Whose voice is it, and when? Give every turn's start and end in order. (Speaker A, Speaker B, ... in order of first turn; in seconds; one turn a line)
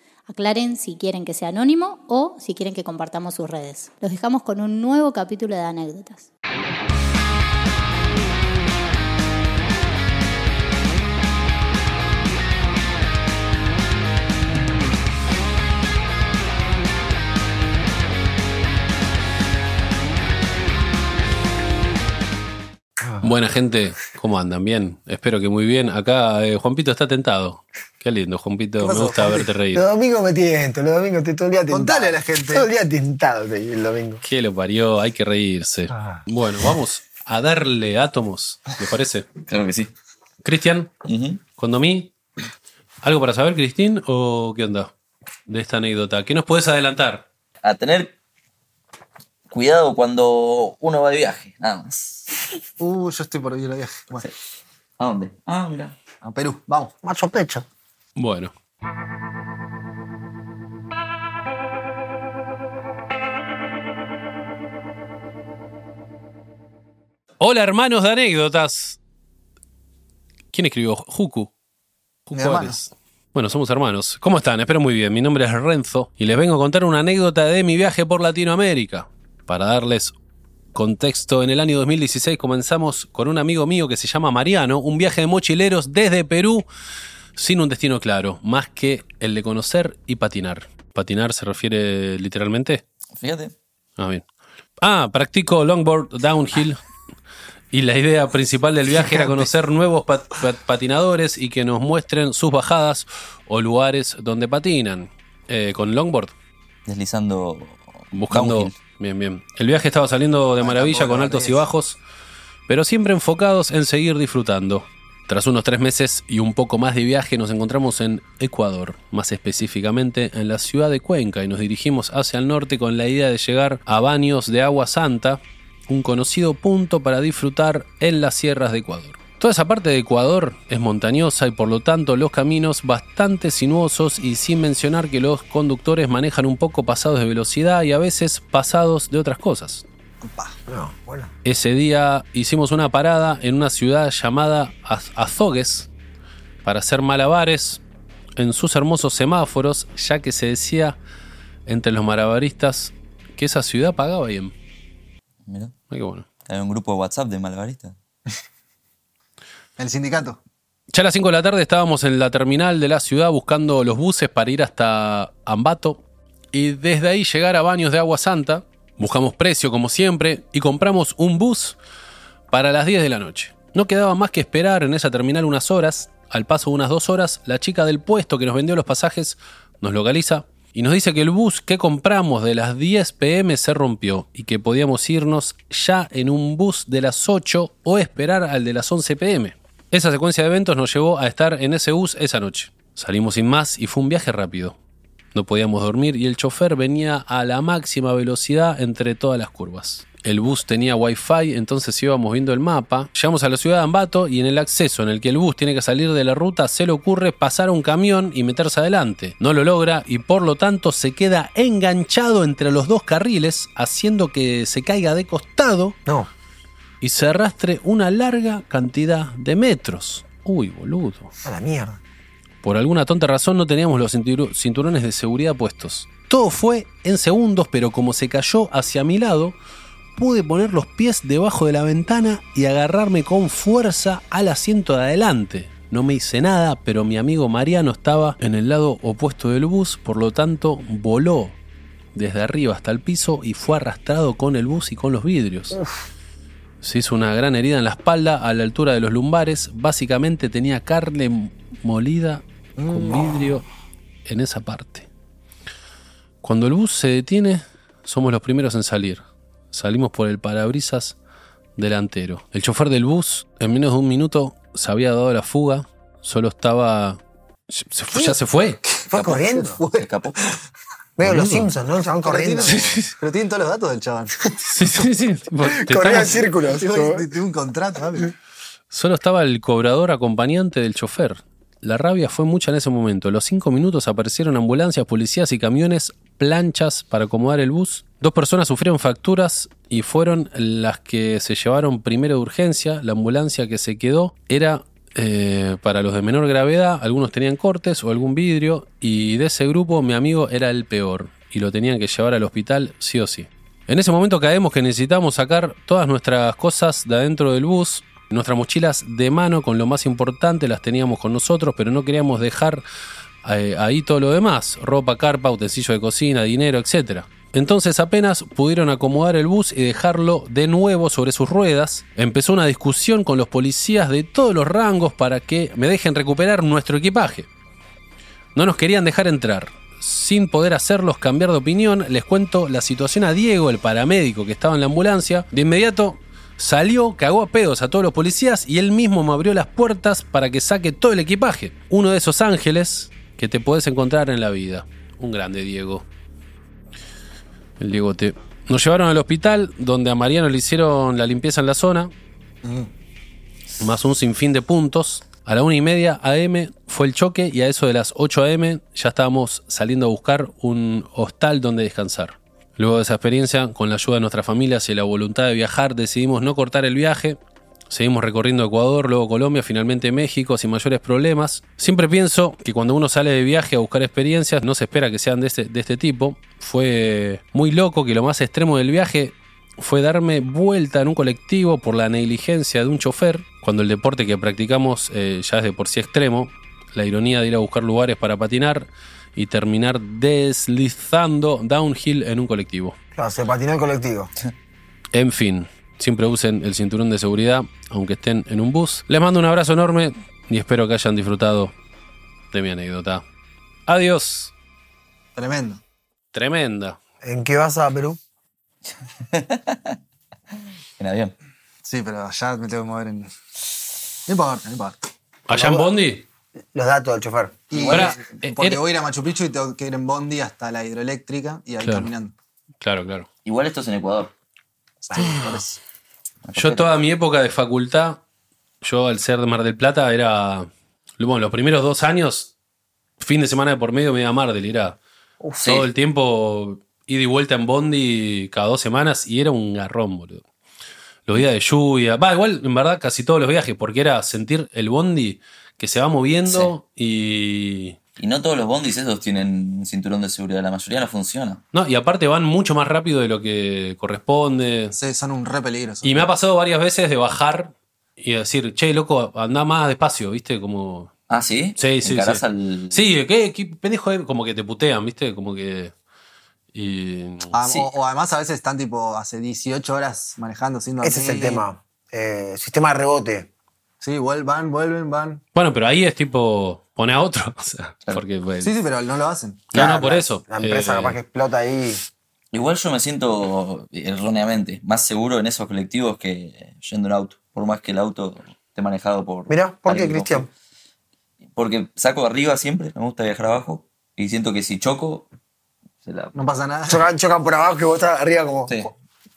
Speaker A: 0.3-6.3
Speaker B: 23.0-23.3
Speaker C: 23.2-29.8
Speaker D: 28.8-29.5
Speaker B: 29.7-34.2
Speaker D: 31.7-32.7
Speaker C: 34.2-39.3
Speaker B: 35.9-36.2
Speaker E: 39.4-39.9
Speaker C: 40.4-40.9
Speaker E: 41.0-41.4
Speaker C: 41.6-42.1
Speaker C: 43.0-44.9
Speaker C: 45.5-47.2
Speaker E: 47.6-48.1
Speaker E: 49.5-52.3
Speaker D: 52.8-54.3
Speaker E: 55.0-56.0
Speaker D: 56.2-56.9
Speaker B: 57.0-57.6
Speaker C: 58.1-58.5
Speaker C: 67.4-69.0
Speaker C: 70.5-71.5
Speaker C: 72.3-80.1
Speaker D: 72.3-72.8
Speaker C: 80.7-86.7
Speaker C: 87.3-92.8
Speaker E: 93.2-93.5
Speaker C: 94.0-94.2
Speaker C: 94.8-96.8
Speaker C: 97.7-106.3
Speaker E: 106.9-108.8
Speaker C: 108.1-112.0
Speaker D: 110.6-111.7
Speaker C: 112.7-139.8
Speaker D: 140.2-140.6
Speaker B: 140.7-141.3
Speaker C: 141.4-145.9
Speaker C: 146.6-147.8
Speaker C: 148.4-151.0
Speaker C: 151.7-154.5
Speaker E: 155.5-155.7
Speaker C: 155.9-156.3
Speaker E: 156.5-158.0
Speaker D: 159.8-160.4
Speaker C: 160.9-166.0
Speaker C: 166.5-171.8
Speaker C: 172.5-194.8
Speaker C: 195.3-215.9
Speaker C: 217.0-221.3
Speaker B: 221.4-222.0
Speaker C: 222.6-229.6
Speaker C: 230.2-241.6
Speaker C: 242.1-245.8
Speaker B: 245.7-246.1
Speaker C: 246.8-252.4
Speaker D: 252.8-253.6
Speaker C: 253.0-253.6
Speaker C: 254.2-255.1
Speaker C: 256.4-261.1
Speaker C: 261.8-268.8
Speaker B: 268.1-268.4
Speaker B: 269.1-269.8
Speaker D: 269.3-270.5
Speaker E: 270.0-270.4
Speaker B: 271.2-273.0
Speaker C: 271.3-271.7
Speaker D: 272.2-274.6
Speaker C: 274.7-276.4
Speaker B: 275.6-277.3
Speaker D: 276.2-278.3
Speaker C: 278.9-312.9
Speaker C: 313.4-327.5
Speaker C: 328.5-346.1
Speaker C: 347.8-352.1
Speaker D: 352.6-352.9
Speaker C: 353.9-392.9
Speaker B: 393.1-394.3
Speaker C: 395.1-401.7
Speaker C: 402.5-403.2
Speaker C: 403.9-404.5
Speaker D: 405.4-405.8
Speaker C: 406.3-407.0
Speaker B: 407.2-408.2
Speaker E: 409.3-409.9
Speaker E: 411.0-411.3
Speaker D: 411.8-413.3
Speaker D: 414.3-415.0
Speaker C: 415.5-416.2
Speaker B: 415.5-415.9
Speaker B: 416.7-417.7
Speaker D: 417.7-422.3
Speaker E: 417.8-418.2
Speaker C: 422.8-423.3
Speaker E: 423.4-424.3
Speaker D: 425.0-425.8
Speaker B: 425.2-425.4
Speaker E: 426.5-426.9
Speaker C: 426.6-428.2
Speaker C: 428.8-432.5
Speaker C: 433.2-435.0
Speaker E: 435.6-435.9
Speaker C: 435.7-440.4
Speaker C: 441.3-448.0
Speaker E: 446.4-446.7
Speaker E: 448.2-451.6
Speaker C: 451.7-454.9
Speaker D: 454.9-456.3
Speaker C: 456.0-461.1
Speaker E: 461.3-463.1
Speaker C: 461.8-465.9
Speaker C: 466.7-467.5
Speaker D: 467.5-471.6
Speaker B: 471.0-473.5
Speaker D: 474.0-475.4
Speaker C: 475.5-478.7
Speaker D: 478.6-479.7
Speaker C: 479.7-481.2
Speaker B: 479.7-482.0
Speaker E: 482.5-490.5
Speaker B: 489.5-490.5
Speaker E: 491.5-495.3
Speaker E: 496.0-496.3
Speaker D: 496.3-497.0
Speaker B: 496.9-498.9
Speaker E: 498.7-498.9